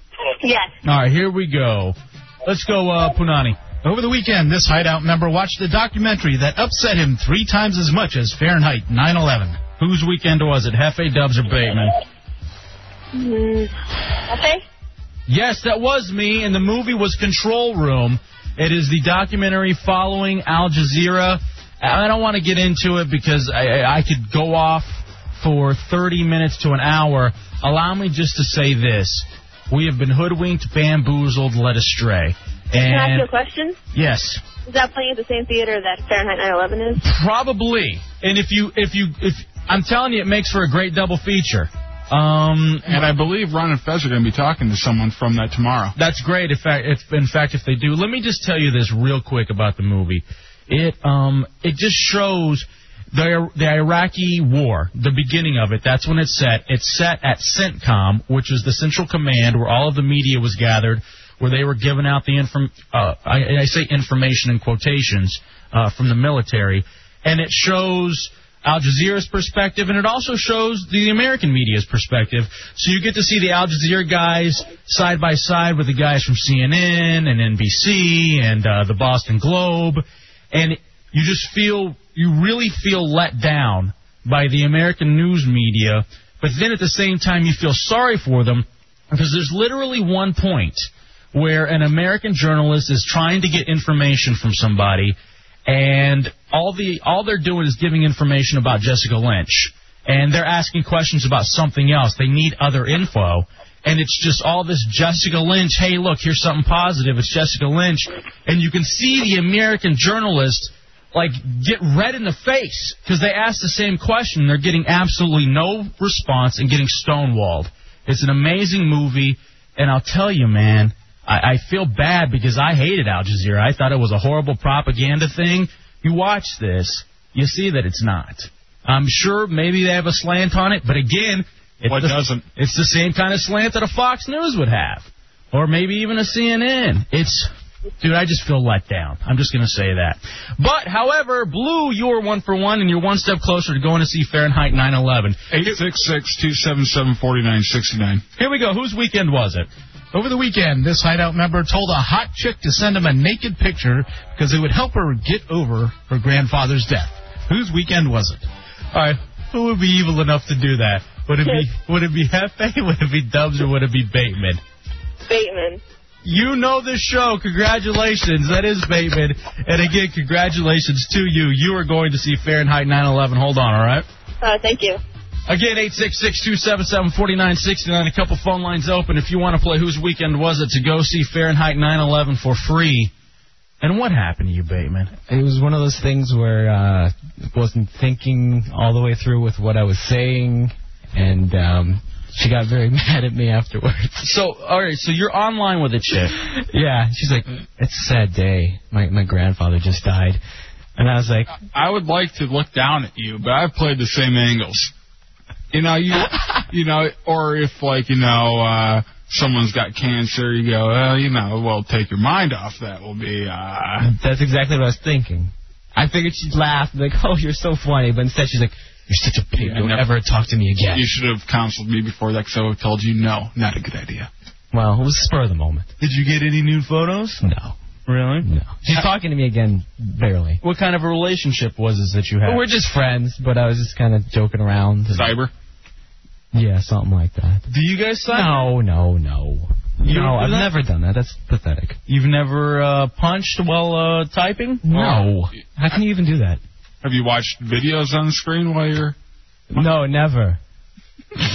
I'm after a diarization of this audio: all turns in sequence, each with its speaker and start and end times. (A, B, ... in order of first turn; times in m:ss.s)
0:00.4-0:00.7 A
0:00.8-0:03.6 B
0:03.8-0:09.5 C
0:09.6-0:11.9 B
0:13.1-0:13.7 A
0:14.3-0:14.6 A
0:15.3-0:33.3 B
0:32.8-0:33.8 A
0:33.9-0:34.4 B
0:34.7-0:37.0 A
0:37.0-0:43.0 B
0:42.9-0:45.9 D
0:46.0-1:35.2 B
1:35.7-2:25.8 B
2:11.9-2:12.4 D
2:25.5-2:28.2 D
2:28.4-2:29.7 B
2:30.1-2:38.4 C
2:38.9-2:44.6 B
2:45.2-2:45.8 A
2:46.2-2:54.0 B
2:54.4-2:55.0 A
2:55.5-3:03.1 B
3:03.8-3:05.1 B
3:05.3-3:14.2 E
3:14.2-3:16.3 B
3:16.7-3:20.4 E
3:21.0-3:21.5 E
3:21.6-3:24.9 D
3:25.7-3:34.1 D
3:34.0-3:41.0 E
3:39.5-3:40.0 D
3:40.9-3:44.3 D
3:44.7-3:45.9 E
3:46.0-3:47.4 B
3:47.4-3:47.8 E
3:48.1-3:48.5 B
3:48.4-3:50.6 E
3:50.6-3:52.6 B
3:52.4-3:55.3 E
3:55.1-3:55.5 D
3:56.5-3:57.6 E
3:57.7-3:58.7 B
3:58.3-4:02.0 E
4:00.0-4:00.7 B
4:02.1-4:05.2 B
4:04.8-4:06.6 E
4:05.0-4:05.2 D
4:07.0-4:09.1 D
4:09.7-4:10.6 E